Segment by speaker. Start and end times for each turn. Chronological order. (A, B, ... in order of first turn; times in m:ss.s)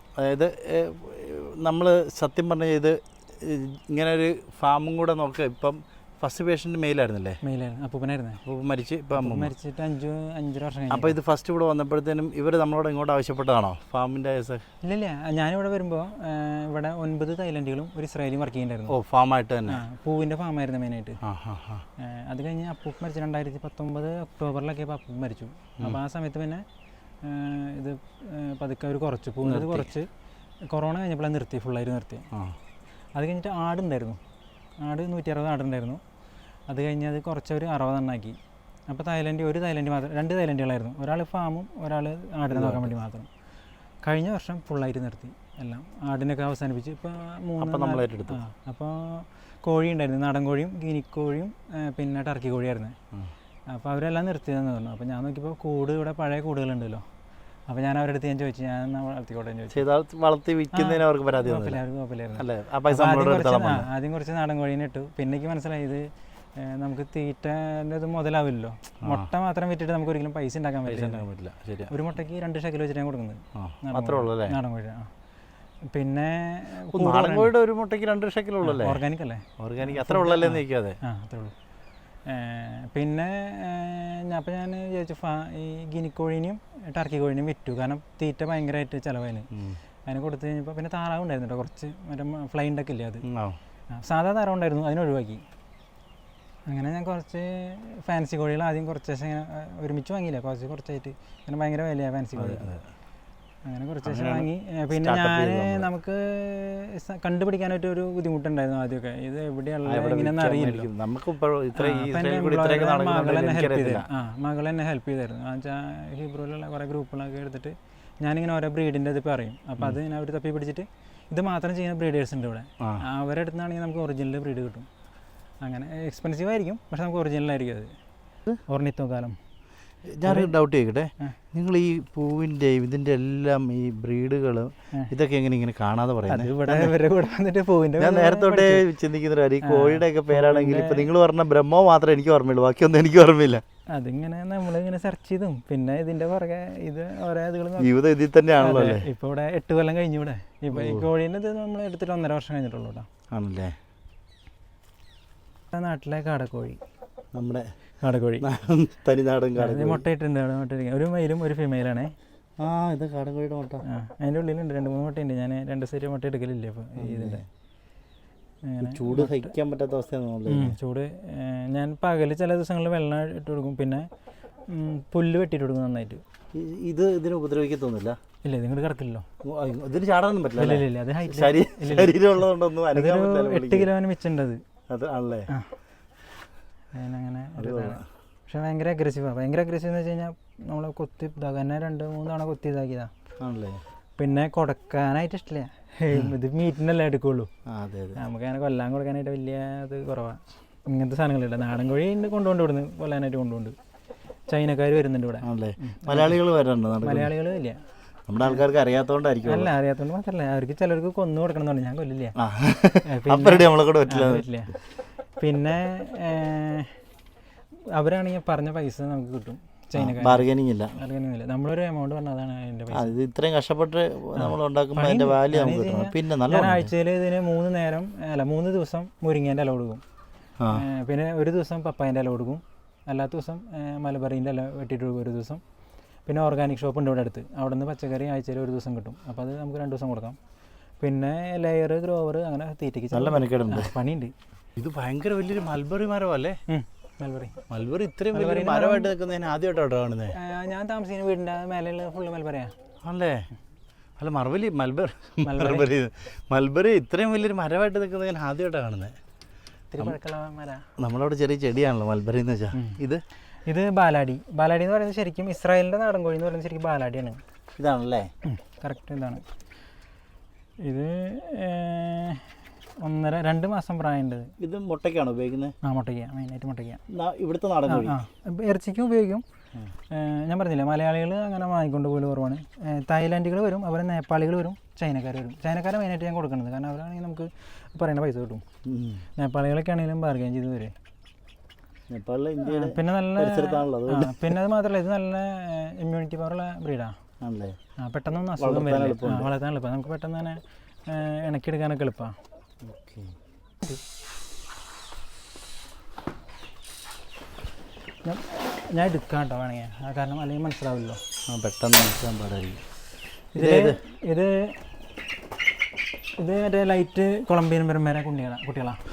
0:00.2-0:07.4 A
0:07.4-0:08.4 B
0:08.4-0:09.5 A
0:09.1-0:11.2 B
0:10.9-0:14.6 A
0:14.8-0:18.9 B
0:18.9-0:19.8 A
0:19.7-0:21.2 B
0:21.2-0:21.8 A
0:22.0-0:26.6 B
0:27.2-0:30.1 B
0:29.4-0:29.9 A
0:30.7-0:32.2 B
0:33.1-0:34.2 B
0:34.8-0:36.0 B
0:36.7-0:43.3 B
0:42.5-0:42.9 A
0:44.0-0:53.0 B
0:47.6-0:48.4 A
0:53.7-0:57.0 B
0:57.7-0:59.8 B
0:59.7-1:01.8 A
1:00.7-1:11.2 B
1:02.4-1:03.9 A
1:10.9-1:11.9 A
1:11.9-1:15.1 B
1:13.5-1:14.6 A
1:15.9-1:17.5 B
1:16.9-1:19.0 A
1:18.6-1:21.5 B
1:19.6-1:21.0 A
1:22.2-1:29.5 B
1:29.5-1:29.8 A
1:30.0-1:33.2 B
1:33.2-1:33.6 A
1:33.9-1:35.4 B
1:36.7-1:42.7 B
1:42.4-1:42.8 A
1:43.6-1:50.9 B
1:44.0-1:45.9 A
1:49.9-1:54.1 A
1:51.7-2:04.9 B
2:05.6-2:07.9 B
2:08.7-2:09.4 B
2:10.2-2:16.9 A
2:10.2-2:10.5 B
2:16.3-2:18.8 B
2:18.0-2:23.6 A
2:19.6-2:21.1 B
2:23.9-2:27.9 B
2:27.8-2:29.0 A
2:28.6-2:33.1 B
2:30.7-2:31.1 A
2:33.3-2:33.7 A
2:35.7-2:36.8 B
2:37.3-2:37.7 A
2:38.0-2:38.5 B
2:38.4-2:40.0 A
2:39.6-2:42.1 B
2:42.6-2:43.8 A
2:43.8-2:47.4 B
2:47.0-2:47.4 A
2:48.6-2:49.5 B
2:48.8-2:50.8 A
2:50.5-2:54.0 B
2:54.7-2:56.2 B
2:56.5-2:58.2 A
2:58.4-2:59.2 B
2:59.4-3:03.9 A
3:00.6-3:02.3 B
3:02.9-3:04.6 B
3:04.9-3:05.5 A
3:06.9-3:13.1 B
3:07.6-3:08.0 A
3:13.4-3:13.8 A
3:14.2-3:17.5 B
3:17.7-3:18.2 A
3:18.2-3:23.7 B
3:24.5-3:26.4 B
3:25.4-3:27.3 A
3:27.0-3:27.8 B
3:28.3-3:29.7 A
3:29.4-3:32.3 B
3:32.4-3:34.4 A
3:33.1-3:34.8 B
3:35.4-3:37.0 B
3:38.0-3:43.1 B
3:40.0-3:40.9 A
3:42.9-3:46.9 A
3:44.4-3:50.0 B
3:50.7-3:55.6 B
3:56.2-4:00.4 B
4:01.0-4:04.3 B
4:03.1-4:03.9 A
4:04.8-4:06.6 A
4:06.7-4:07.6 B
4:07.7-4:10.3 A
4:08.3-4:09.1 B
4:10.3-4:12.7 B
4:13.0-4:13.4 A
4:14.2-4:19.2 A
4:15.4-4:15.9 B
4:19.9-4:20.8 B
4:21.0-4:23.2 A
4:22.7-4:23.0 B
4:23.7-4:27.4 B
4:27.8-4:28.3 A
4:28.4-4:29.4 B
4:30.8-4:34.5 B
4:34.6-4:35.7 A
4:35.8-4:37.0 B
4:37.1-4:38.2 A
4:37.9-4:39.4 B
4:40.1-4:48.6 B
4:48.8-4:49.2 A
4:49.4-4:50.9 B
4:52.1-4:54.6 A
4:52.6-4:57.1 B
4:57.4-4:57.8 A
4:58.0-5:02.3 B
4:58.6-4:59.5 A
5:02.8-5:03.3 A
5:08.2-5:11.2 B
5:11.5-5:12.8 A
5:13.5-5:14.8 B
5:13.5-5:14.0 A
5:16.4-5:19.0 B